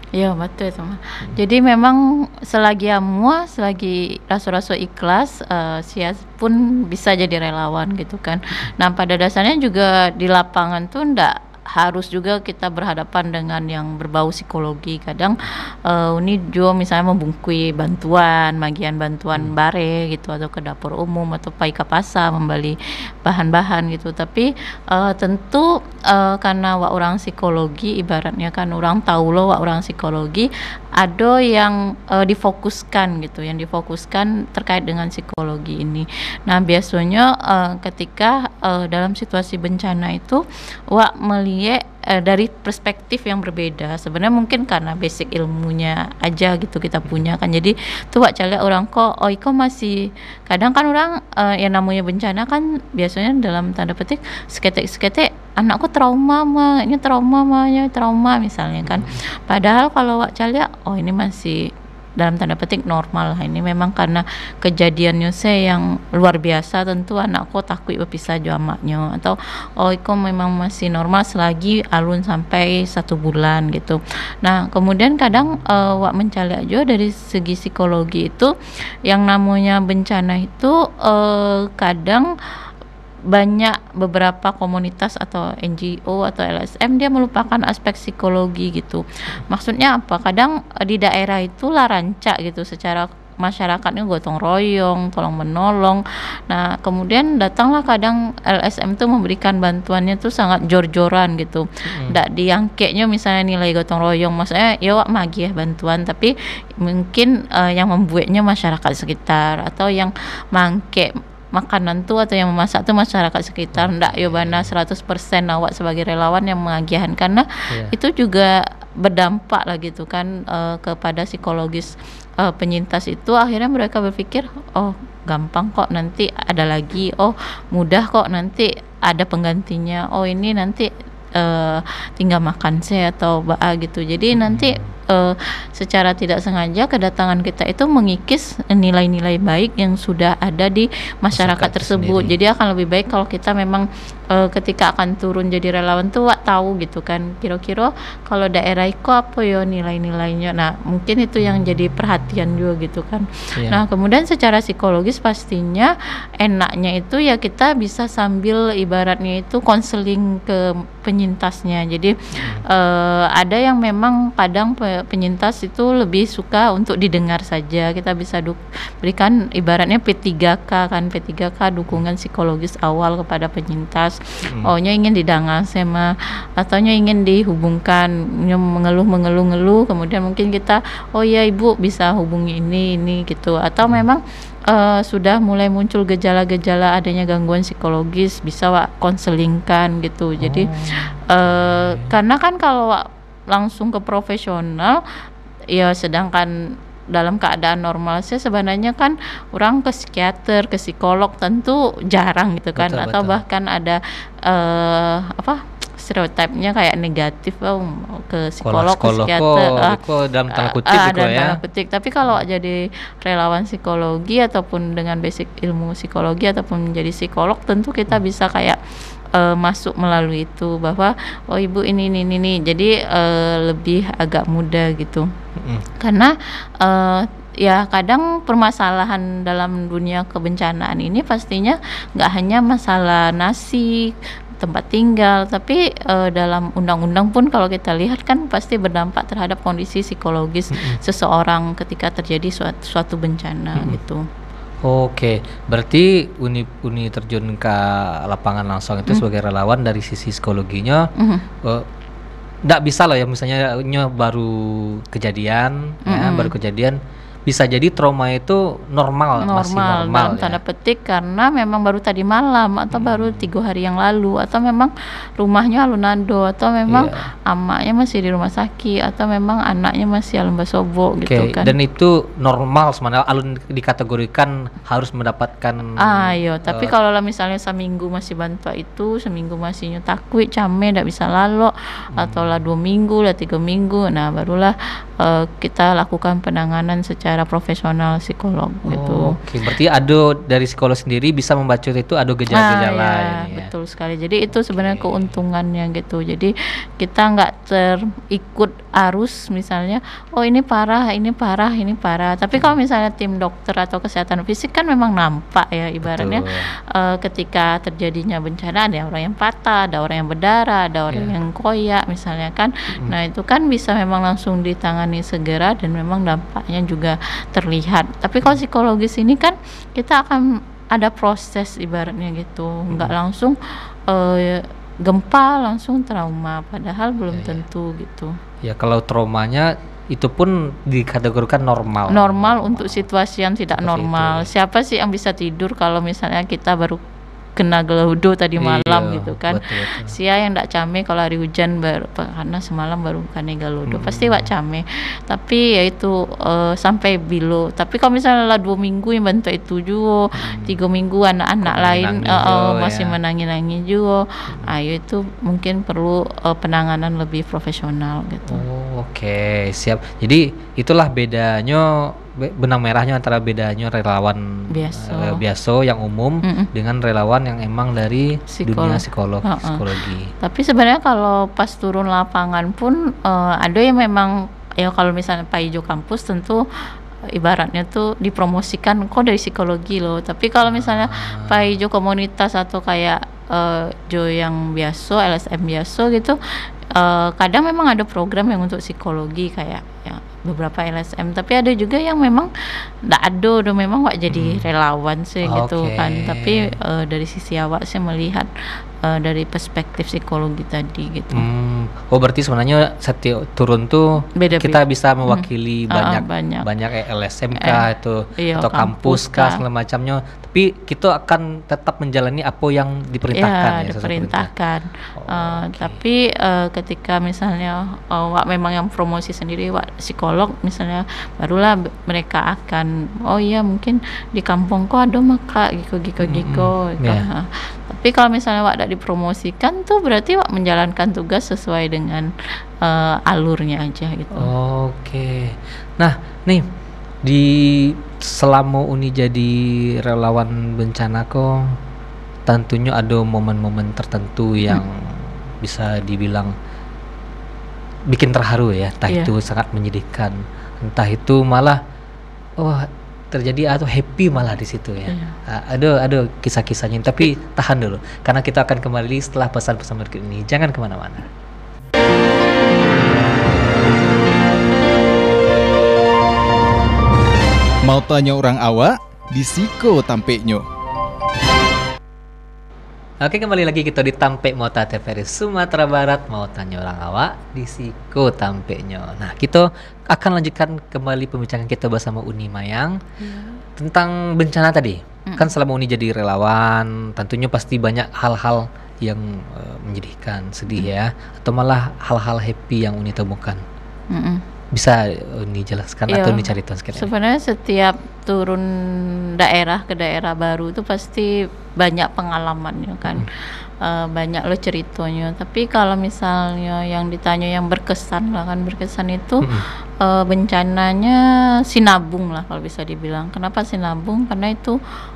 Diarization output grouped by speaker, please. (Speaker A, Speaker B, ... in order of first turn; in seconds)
Speaker A: 0.1-78.5, 79.1-82.3, 83.3-162.1, 162.6-195.0, 195.7-196.5, 197.1-210.0, 210.5-218.8, 219.3-225.3, 226.0-244.2, 251.2-251.4, 256.1-256.5, 259.4-271.7, 276.0-289.3, 292.5-323.6, 324.1-328.3, 332.1-337.0, 337.6-358.6, 364.7-365.4, 366.4-366.7, 368.5-369.8, 370.4-376.6, 377.3-386.4, 386.9-392.5, 393.1-398.5, 399.0-401.4, 404.4-406.6, 407.5-407.8, 408.4-409.6, 413.3-432.3, 432.8-434.5, 455.1-455.4, 483.2-483.6, 485.3-485.5, 494.1-494.4, 496.1-509.5, 510.0-514.8
Speaker B: 58.9-59.2, 101.9-102.2, 113.7-114.7, 134.3-134.9, 141.3-142.3, 153.6-153.8, 162.3-162.6, 174.5-174.7, 190.4-192.2, 202.8-203.4, 208.6-211.6, 225.6-225.8, 240.7-241.0, 244.8-251.1, 252.6-260.6, 262.9-263.5, 266.9-267.3, 271.2-276.9, 282.1-282.6, 288.9-293.7, 294.5-295.3, 306.0-306.7, 327.3-327.6, 328.6-333.1, 333.7-334.5, 338.6-340.1, 343.9-344.5, 350.3-350.8, 351.6-353.2, 358.5-370.3, 380.6-381.7, 394.3-394.6, 395.4-396.7, 401.3-414.5, 415.2-416.0, 426.2-427.3, 434.3-436.6, 437.2-441.8, 442.4-446.5, 448.1-451.8, 452.6-461.3, 473.2-483.0, 483.8-493.6, 494.7-497.1
Speaker C: 467.9-470.6